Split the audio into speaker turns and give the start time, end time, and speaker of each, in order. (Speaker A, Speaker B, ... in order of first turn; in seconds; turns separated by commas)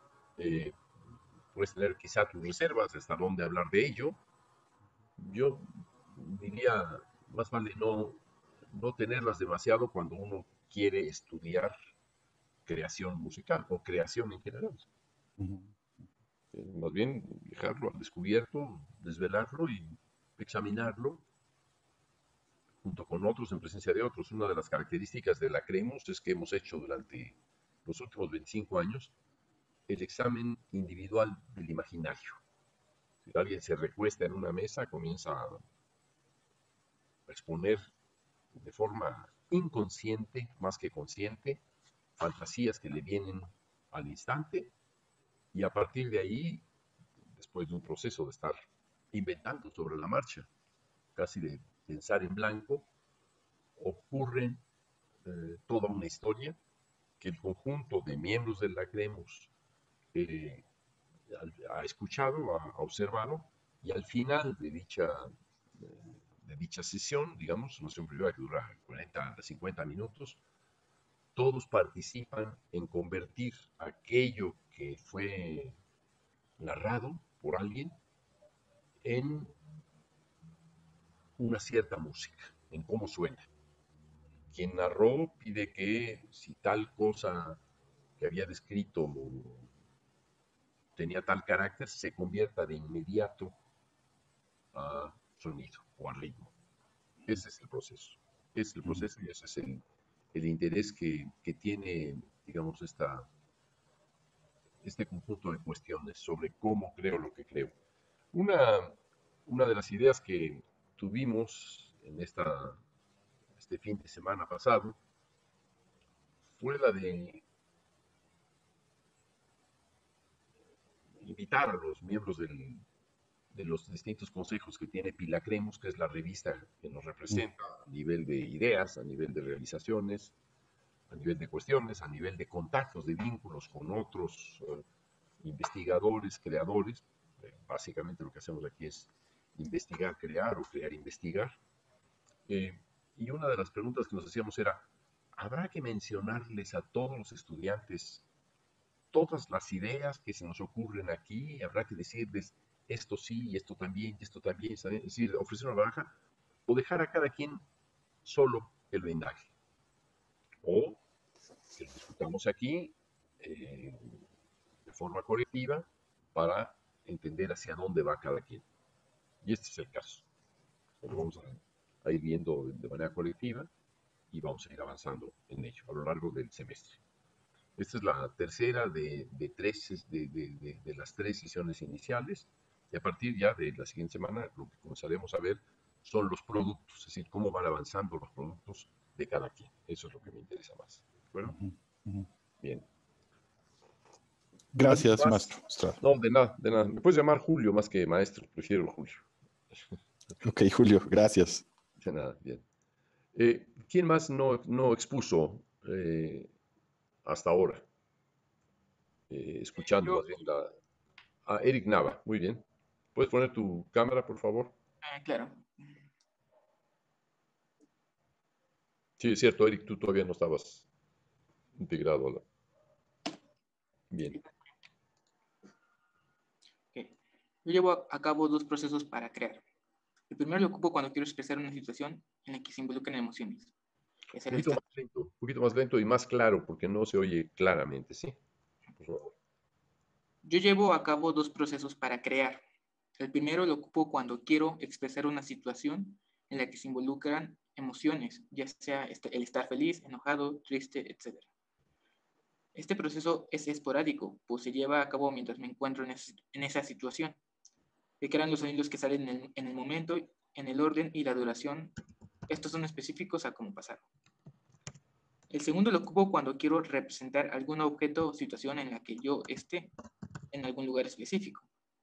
Speaker A: 0.4-0.8, Speaker A: 1.5-4.2, Speaker A: 5.2-11.7, Speaker A: 12.7-14.8, Speaker B: 15.4-15.7, Speaker A: 16.5-21.2, Speaker A: 22.8-29.1, Speaker A: 29.9-32.4, Speaker A: 33.2-35.6, Speaker A: 37.3-37.9, Speaker A: 38.5-41.6, Speaker A: 42.2-44.7, Speaker A: 45.5-46.6, Speaker A: 47.4-48.6, Speaker A: 49.1-50.5, Speaker A: 51.1-52.9, Speaker A: 53.8-54.6, Speaker A: 55.2-56.6, Speaker A: 57.2-59.5, Speaker A: 60.1-60.6, Speaker A: 61.3-70.4, Speaker A: 71.3-75.8, Speaker A: 76.6-78.0, Speaker A: 79.0-79.5, Speaker A: 81.4-83.5, Speaker A: 84.5-87.6, Speaker A: 88.2-89.7, Speaker A: 91.0-93.5, Speaker A: 94.7-96.5, Speaker A: 97.2-99.8, Speaker A: 100.3-103.3, Speaker A: 104.8-107.7, Speaker A: 108.3-112.8, Speaker A: 113.6-115.0, Speaker A: 116.6-117.4, Speaker A: 121.2-122.8, Speaker A: 123.5-130.3, Speaker A: 131.1-134.8, Speaker A: 135.4-141.6, Speaker A: 142.5-148.2, Speaker A: 149.1-156.1, Speaker A: 156.7-157.6, Speaker A: 158.2-159.5, Speaker A: 160.6-161.0, Speaker A: 161.7-164.2, Speaker A: 164.8-168.7, Speaker A: 169.4-170.2, Speaker A: 171.0-173.7, Speaker A: 174.3-177.0, Speaker A: 177.8-191.6, Speaker B: 191.4-192.3, Speaker B: 194.7-196.0, Speaker A: 194.9-199.2, Speaker B: 200.4-201.6, Speaker A: 202.0-202.6, Speaker A: 203.3-206.5, Speaker A: 207.2-207.8, Speaker A: 209.3-210.7, Speaker A: 211.4-212.6, Speaker A: 213.1-214.7, Speaker C: 215.0-215.9, Speaker A: 219.2-220.8, Speaker A: 221.8-222.4, Speaker A: 224.1-224.4, Speaker C: 227.6-229.6, Speaker C: 230.3-233.7, Speaker C: 234.3-234.8, Speaker A: 234.5-238.3, Speaker A: 239.0-239.3, Speaker C: 240.4-242.6, Speaker C: 243.2-251.5, Speaker C: 252.7-257.4, Speaker C: 258.2-261.9, Speaker C: 262.5-264.1, Speaker C: 265.5-269.9, Speaker C: 270.5-271.7